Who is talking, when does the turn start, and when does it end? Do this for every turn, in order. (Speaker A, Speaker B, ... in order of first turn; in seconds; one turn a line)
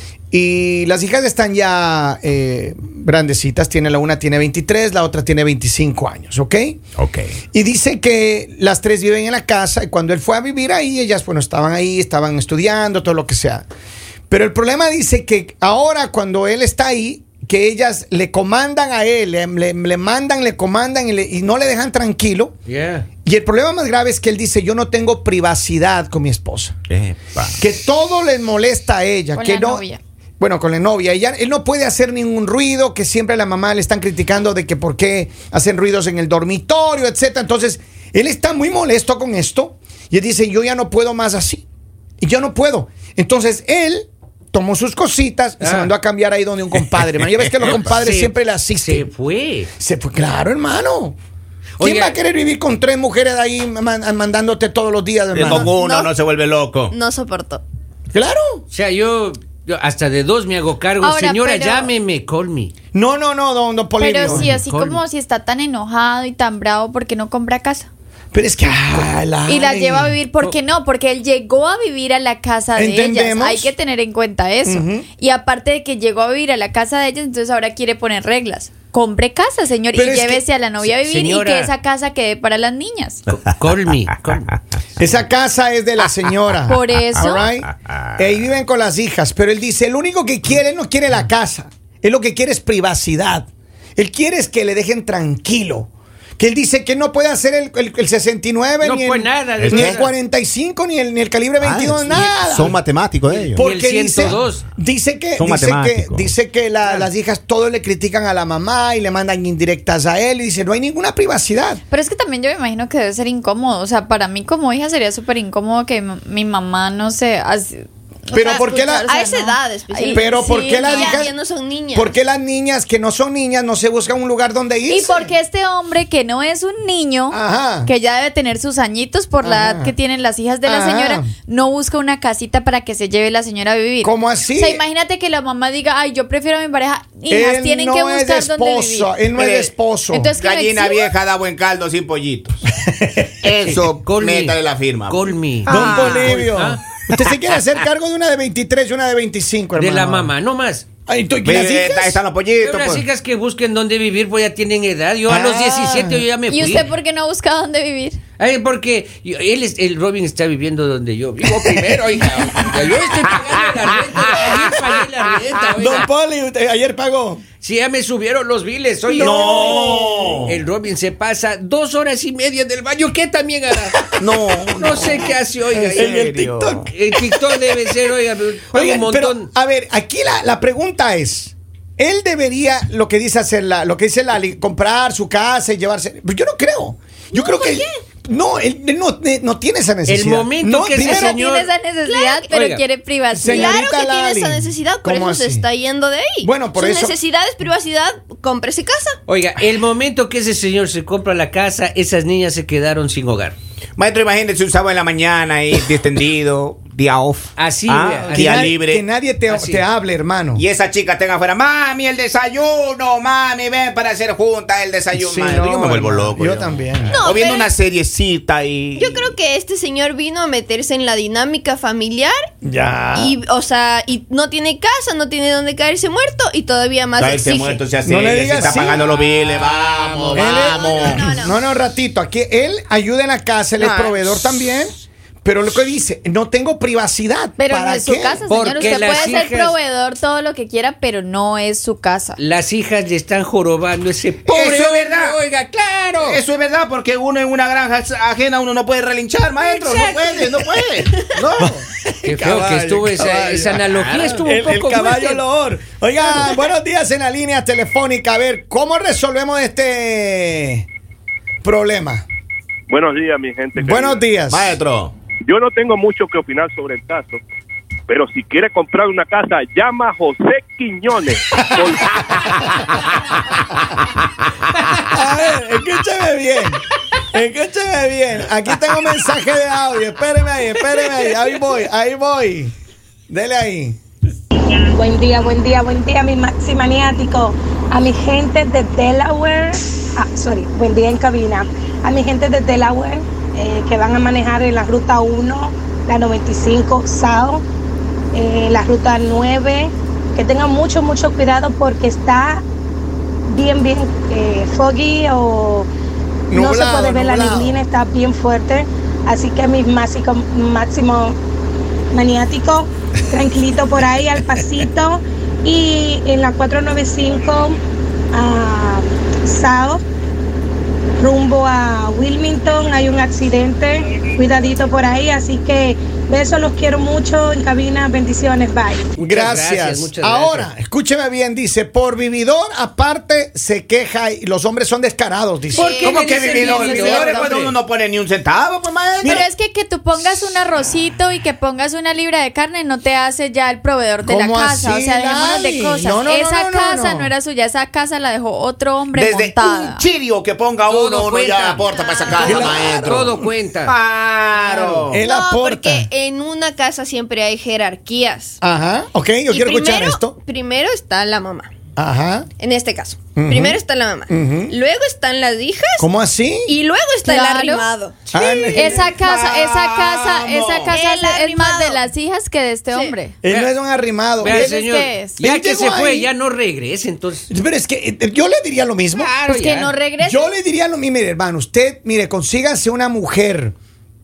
Speaker A: 0.3-6.8
Speaker B: 7.0-7.3
Speaker A: 7.5-13.6
Speaker A: 14.3-22.5
Speaker C: 22.7-23.1
Speaker A: 23.2-26.8
Speaker B: 26.9-27.6
Speaker A: 27.6-29.8
Speaker D: 29.4-30.0
Speaker A: 30.4-41.6
Speaker A: 42.2-49.1
Speaker C: 45.6-45.9
Speaker C: 47.7-49.7
Speaker A: 49.8-51.2
Speaker C: 51.8-52.2
Speaker A: 51.8-55.7
Speaker B: 55.3-56.9
Speaker E: 55.4-56.2
Speaker E: 56.9-57.6
Speaker A: 58.1-58.6
Speaker C: 58.7-62.7
Speaker D: 61.0-61.9
Speaker A: 62.9-64.5
Speaker D: 64.0-67.9
Speaker C: 64.2-65.0
Speaker A: 68.3-70.2
Speaker D: 69.5-83.2
Speaker A: 72.8-73.7
Speaker A: 74.6-75.0
Speaker A: 79.9-80.4
Speaker C: 80.8-81.7
Speaker C: 83.4-84.6
Speaker A: 85.0-102.8
Speaker D: 86.7-87.5
Speaker B: 87.9-88.2
Speaker C: 98.8-100.1
Speaker B: 99.6-100.0
Speaker B: 101.6-103.6
Speaker A: 103.5-111.8
Speaker C: 103.6-104.6
Speaker B: 105.4-106.3
Speaker C: 106.8-107.1
Speaker D: 111.9-121.2
Speaker A: 118.3-119.1
Speaker E: 118.4-122.2
Speaker A: 120.1-121.3
Speaker A: 121.9-125.3
Speaker D: 124.9-139.1
Speaker A: 127.3-127.9
Speaker A: 129.4-129.9
Speaker A: 130.6-131.3
Speaker A: 134.0-134.8
Speaker A: 137.3-140.3
Speaker B: 139.4-139.7
Speaker D: 140.1-141.1
Speaker B: 140.4-142.6
Speaker A: 142.9-143.3
Speaker B: 143.4-146.3
Speaker C: 144.0-146.8
Speaker A: 145.7-150.3
Speaker C: 149.8-150.8
Speaker A: 151.1-152.2
Speaker B: 151.4-153.1
Speaker C: 152.6-156.9
Speaker A: 155.2-156.2
Speaker D: 156.5-158.2
Speaker C: 158.4-166.1
Speaker A: 165.8-167.4
Speaker C: 167.6-169.9
Speaker A: 169.1-170.3
Speaker B: 169.1-170.6
Speaker C: 170.4-174.0
Speaker B: 174.2-176.9
Speaker C: 174.8-176.2
Speaker A: 175.9-177.8
Speaker C: 176.9-179.5
Speaker A: 178.7-191.4
Speaker E: 187.3-187.9
Speaker C: 190.1-191.7
Speaker D: 191.0-193.8
Speaker E: 192.1-192.5
Speaker C: 192.5-192.8
Speaker A: 193.3-195.7
Speaker E: 193.4-199.2
Speaker A: 196.4-197.2
Speaker C: 199.3-203.6
Speaker B: 204.0-209.0
Speaker C: 207.6-208.7
Speaker A: 208.3-210.7
Speaker C: 209.5-209.8
Speaker B: 210.6-219.3
Speaker A: 215.1-217.2
Speaker E: 217.1-217.7
Speaker E: 219.0-222.5
Speaker A: 222.6-223.3
Speaker E: 223.2-227.8
Speaker B: 227.2-231.4
Speaker A: 228.0-229.0
Speaker C: 229.0-231.0
Speaker A: 230.3-238.4
Speaker E: 230.6-231.6
Speaker B: 233.8-234.6
Speaker D: 237.6-242.4
Speaker C: 238.5-239.7
Speaker C: 242.4-246.4
Speaker B: 244.4-245.4
Speaker B: 246.2-251.8
Speaker E: 249.6-251.2
Speaker A: 251.6-253.8
Speaker C: 252.2-255.4
Speaker B: 253.9-254.4
Speaker A: 254.4-260.9
Speaker A: 261.6-262.2
Speaker F: 262.9-264.3
Speaker A: 263.8-264.8
Speaker B: 264.5-265.1
Speaker F: 265.5-267.4
Speaker F: 268.1-272.6
Speaker A: 271.6-271.9
Speaker A: 275.1-282.7
Speaker A: 283.3-284.0
Speaker G: 284.8-297.6
Speaker G: 298.3-302.6
Speaker G: 303.5-305.9
Speaker A: 306.5-307.8
Speaker G: 306.5-311.4
Speaker G: 312.1-317.8
Speaker G: 318.3-320.0
Speaker G: 321.2-329.1
Speaker C: 329.2-330.7
Speaker A: 329.2-336.0
Speaker C: 335.7-337.8
Speaker E: 335.8-337.3
Speaker B: 336.0-339.5
Speaker D: 336.7-337.3
Speaker A: 339.2-339.5
Speaker D: 339.2-350.1
Speaker A: 340.1-340.5
Speaker A: 344.2-347.3
Speaker B: 349.1-353.3
Speaker C: 350.9-353.9
Speaker E: 351.9-352.6
Speaker A: 352.4-353.5
Speaker B: 353.8-355.2
Speaker A: 354.6-356.1
Speaker E: 355.2-358.6
Speaker A: 358.6-360.3
Speaker E: 359.5-361.7
Speaker A: 362.0-362.5
Speaker E: 362.6-366.1
Speaker A: 363.4-364.7
Speaker A: 366.0-366.7
Speaker E: 366.6-369.0
Speaker D: 367.2-367.9
Speaker A: 368.3-369.2
Speaker D: 368.7-373.3
Speaker B: 369.0-371.0
Speaker E: 370.9-372.0
Speaker E: 372.9-373.1
Speaker A: 373.4-374.8
Speaker C: 373.4-373.7
Speaker C: 374.4-377.5
Speaker D: 374.4-375.4
Speaker A: 375.4-376.3
Speaker A: 377.5-379.3
Speaker C: 379.1-380.0
Speaker D: 379.5-380.4
Speaker A: 380.2-383.7